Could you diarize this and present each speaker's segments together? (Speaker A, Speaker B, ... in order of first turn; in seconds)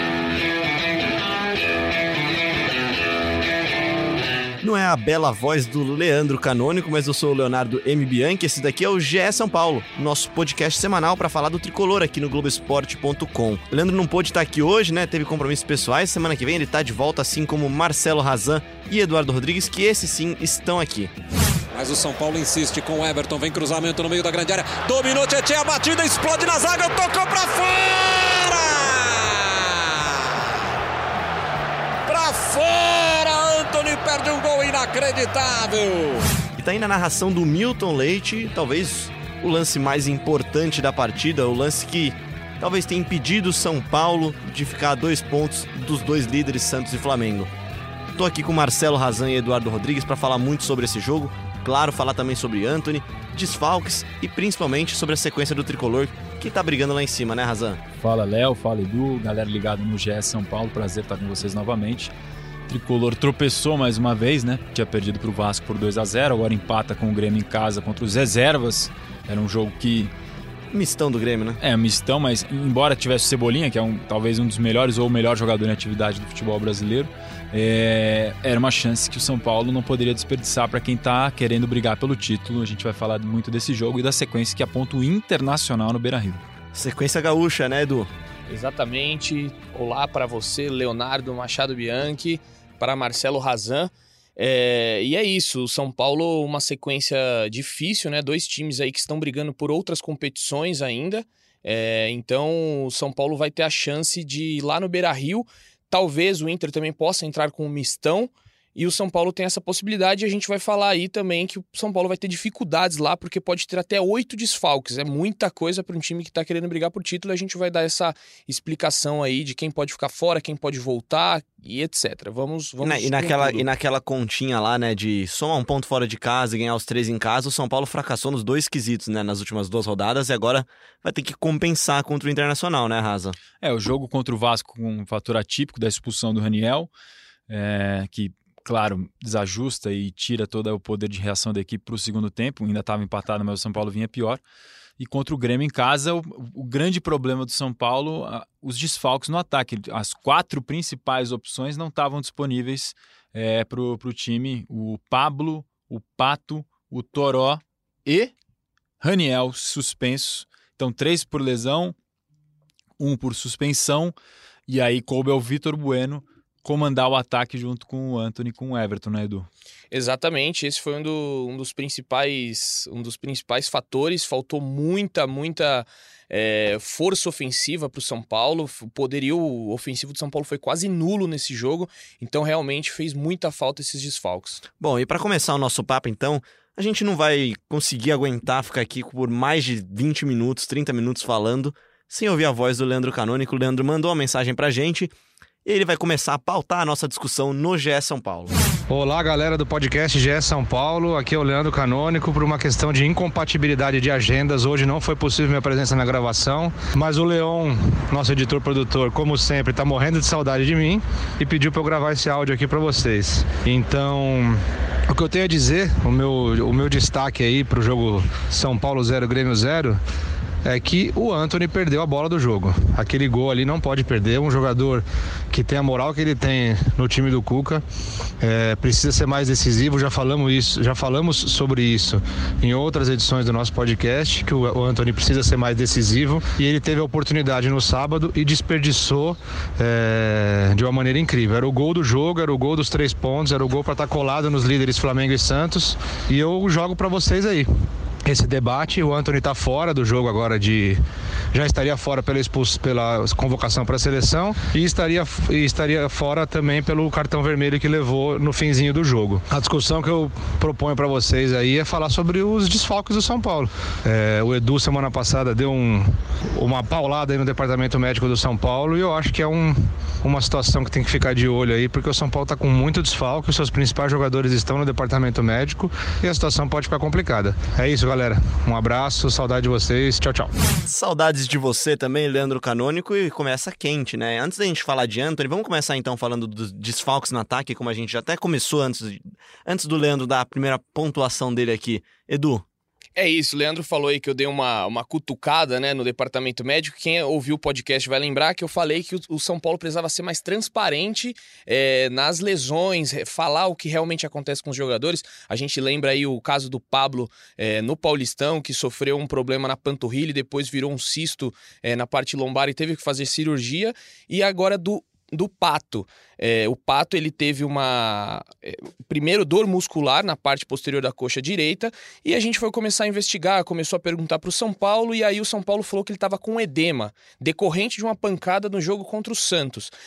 Speaker A: 4.6-21.1, 36.5-47.5, 48.1-57.8, 70.7-71.6, 86.7-88.1, 122.8-133.4, 184.8-195.1, 195.6-198.5, 280.8-292.6
Speaker B: 21.7-30.4, 32.0-36.3
Speaker C: 58.0-62.1, 62.7-70.1, 71.6-86.4, 133.6-136.9, 137.5-144.4, 145.0-158.3, 159.0-161.9, 163.0-164.1, 164.7-169.5
Speaker D: 88.5-123.7, 169.9-184.6, 293.1-329.9
Speaker E: 198.9-220.0, 220.6-227.8, 228.4-247.7, 248.2-251.0, 251.5-280.5